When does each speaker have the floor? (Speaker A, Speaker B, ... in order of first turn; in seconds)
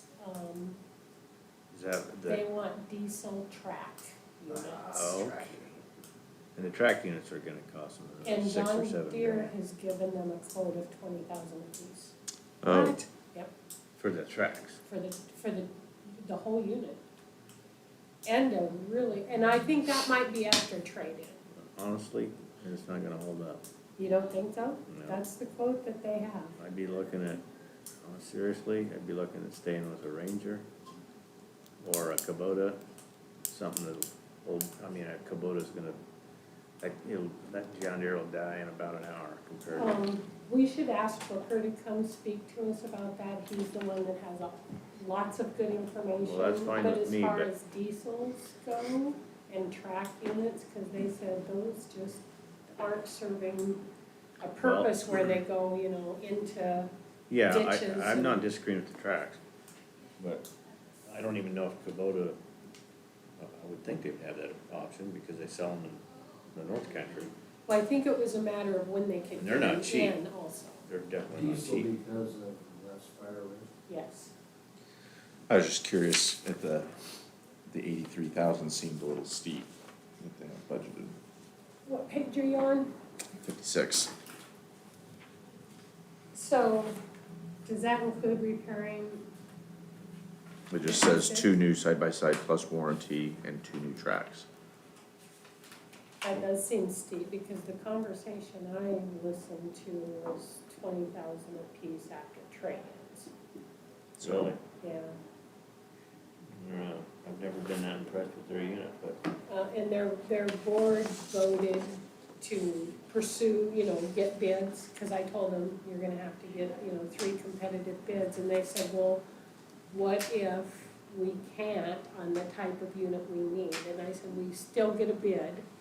Speaker A: 0.2-0.8, 2.2-5.5, 8.2-12.1, 12.7-13.5, 14.9-17.0, 18.2-21.4, 24.0-26.6, 39.7-53.8, 54.4-56.9, 57.4-58.4, 67.7-70.8, 73.9-74.3, 81.8-82.9, 86.3-86.9, 87.6-89.2, 90.8-91.5, 96.2-103.3, 104.7-105.1, 109.5-119.2, 119.9-125.6
Speaker B: 1.7-2.4, 4.6-5.6, 6.5-9.5, 14.0-14.8, 21.6-23.6, 24.9-25.2, 26.6-27.4, 28.0-30.6, 31.8-32.8, 33.5-36.0, 36.8-40.0, 46.2-47.5, 54.6-55.4, 57.3-59.4, 60.2-60.5, 61.1-62.4, 63.4-67.3, 69.4-70.2, 70.9-71.9, 104.2-104.6, 106.5-109.2
Speaker C: 12.6-13.0, 75.5-76.9, 77.7-79.7, 80.2-81.1, 83.4-84.1, 90.7-94.5, 104.2-104.5
Speaker D: 71.3-73.7